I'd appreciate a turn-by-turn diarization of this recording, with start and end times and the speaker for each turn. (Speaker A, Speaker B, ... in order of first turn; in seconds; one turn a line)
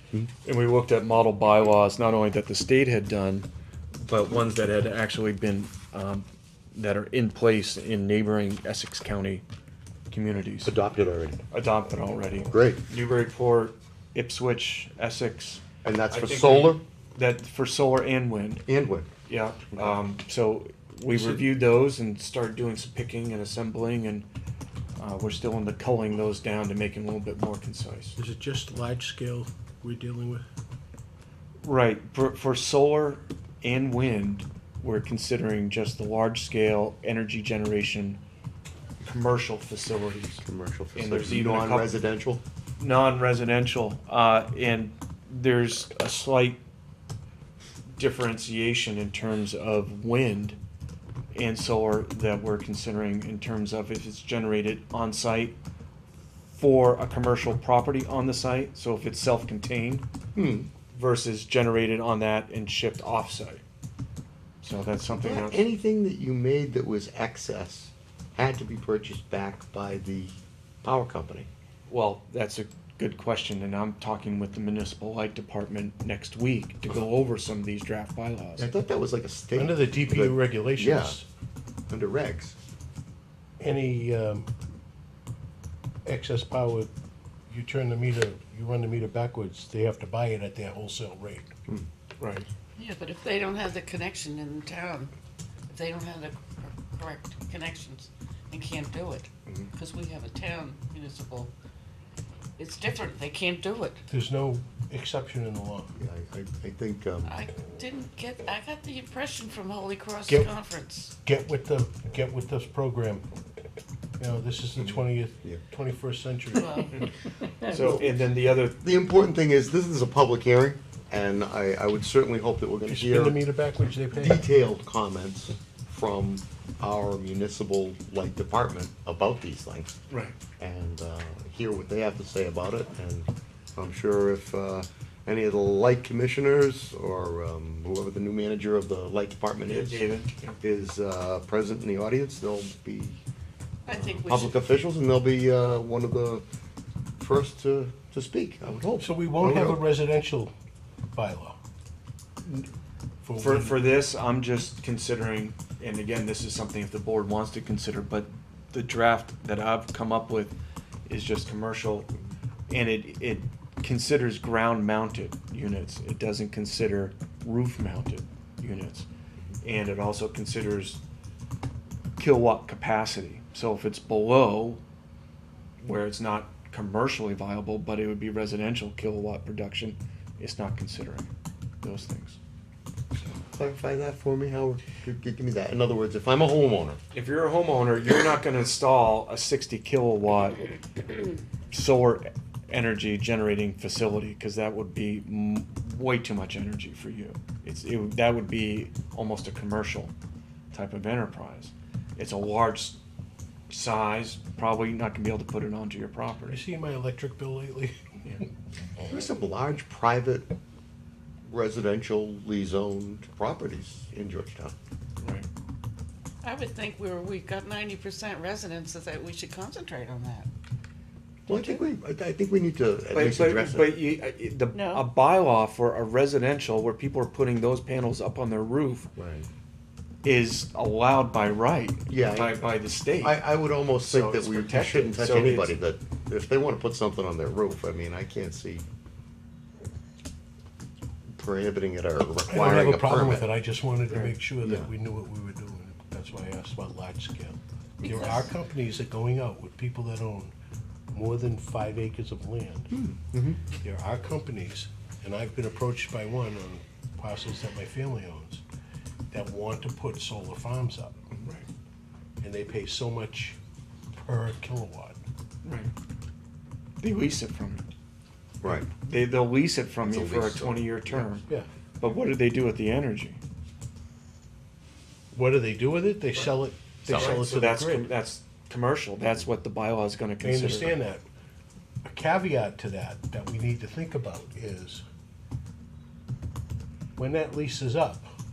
Speaker A: 0.4-3.5
Speaker A: 4.0-9.4
Speaker A: 10.1-10.7
Speaker B: 10.6-11.4
Speaker A: 11.5-18.6
Speaker B: 12.5-12.8
Speaker B: 15.8-16.8
Speaker B: 18.7-19.1
Speaker A: 19.2-24.3
Speaker B: 21.1-21.4
Speaker A: 25.0-28.2
Speaker C: 28.2-30.4
Speaker A: 31.6-38.2
Speaker A: 39.0-40.4
Speaker B: 40.4-42.4
Speaker A: 41.0-41.9
Speaker A: 42.8-46.6
Speaker A: 48.0-50.6
Speaker A: 51.3-55.6
Speaker A: 56.5-60.1
Speaker B: 60.3-60.7
Speaker A: 60.9-63.6
Speaker A: 64.6-65.7
Speaker B: 65.1-71.5
Speaker A: 71.9-78.7
Speaker B: 78.6-81.2
Speaker C: 79.6-81.3
Speaker B: 81.9-82.6
Speaker C: 83.6-84.5
Speaker C: 86.0-86.9
Speaker C: 87.5-91.5
Speaker A: 92.2-92.5
Speaker D: 92.8-95.1
Speaker D: 95.7-101.5
Speaker B: 99.5-99.7
Speaker D: 102.6-104.0
Speaker C: 104.1-106.0
Speaker B: 106.0-107.4
Speaker D: 107.2-111.2
Speaker C: 111.2-113.2
Speaker C: 114.2-117.0
Speaker B: 114.8-115.6
Speaker D: 116.5-117.1
Speaker A: 117.6-118.9
Speaker B: 117.7-118.0
Speaker B: 118.8-123.4
Speaker C: 122.9-124.5
Speaker B: 124.1-129.9
Speaker A: 130.1-130.4
Speaker B: 130.6-140.1
Speaker A: 139.6-140.6
Speaker B: 140.6-143.2
Speaker D: 143.8-144.6
Speaker B: 143.9-146.4
Speaker B: 147.2-149.8
Speaker C: 149.0-150.5
Speaker C: 151.1-151.6
Speaker A: 152.4-152.7
Speaker C: 153.2-153.8
Speaker A: 153.3-160.5
Speaker A: 161.1-162.1
Speaker A: 162.7-169.1
Speaker A: 169.6-171.0
Speaker A: 172.2-174.8
Speaker A: 175.8-181.3
Speaker A: 181.8-182.4
Speaker B: 183.3-187.0
Speaker A: 187.1-190.7
Speaker A: 191.7-200.1
Speaker A: 200.7-203.0
Speaker A: 203.7-206.6
Speaker C: 206.5-207.9
Speaker B: 209.0-210.5
Speaker B: 211.4-214.7
Speaker A: 215.2-215.5
Speaker D: 216.4-220.5
Speaker B: 221.5-223.9
Speaker A: 221.5-221.8
Speaker A: 223.1-229.1
Speaker D: 224.7-225.0
Speaker B: 229.2-229.5
Speaker A: 230.2-235.8
Speaker B: 232.1-238.8
Speaker B: 241.3-243.5
Speaker C: 242.5-250.5
Speaker A: 244.1-244.3
Speaker B: 244.6-244.9
Speaker D: 248.0-248.5
Speaker C: 251.1-252.9
Speaker B: 252.9-253.6
Speaker C: 253.7-258.6
Speaker C: 259.3-261.2
Speaker A: 261.4-261.7
Speaker C: 262.4-263.6
Speaker C: 264.2-265.2
Speaker A: 265.6-265.9
Speaker A: 267.0-267.9
Speaker B: 268.6-268.9
Speaker A: 268.9-271.5
Speaker B: 270.0-271.2
Speaker A: 272.0-273.4
Speaker C: 275.3-278.1
Speaker A: 277.1-281.0
Speaker B: 277.1-277.4
Speaker C: 280.4-281.2
Speaker C: 282.1-285.0
Speaker C: 287.2-288.3